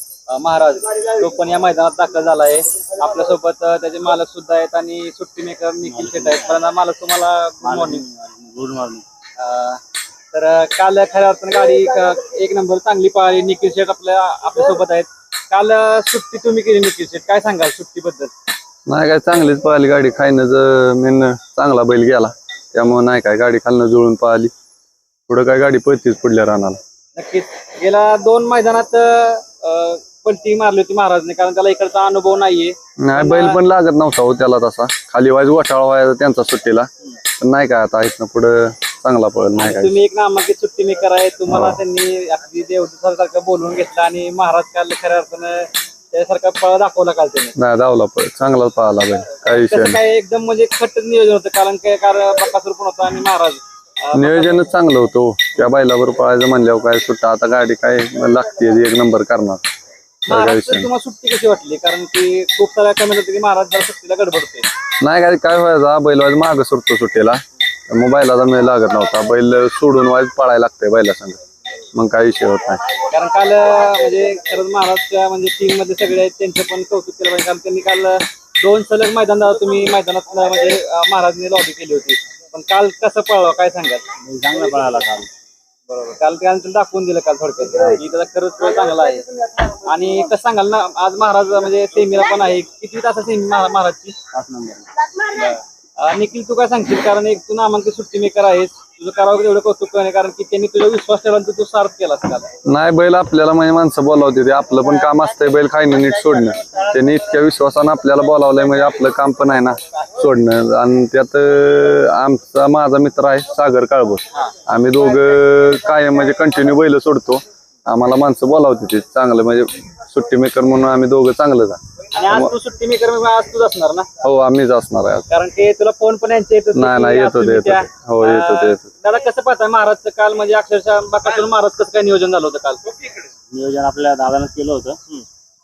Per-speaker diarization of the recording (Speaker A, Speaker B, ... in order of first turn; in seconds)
Speaker A: 0.3-8.0, 9.4-9.8, 10.3-18.3, 27.2-33.6, 39.6-47.5, 49.5-54.6, 60.3-64.7, 73.1-84.0, 85.9-94.2, 95.2-102.5, 122.1-124.1, 125.3-132.9
Speaker B: 5.9-6.6, 7.6-9.1, 84.2-85.3, 94.3-94.8, 133.5-135.0
Speaker C: 18.9-24.5, 25.3-26.8, 33.0-36.9, 37.4-40.0, 41.5-41.8, 47.5-50.0, 54.1-59.6, 60.3-60.9, 65.0-71.4, 71.9-72.8, 102.7-122.5, 124.2-125.2, 126.8-128.9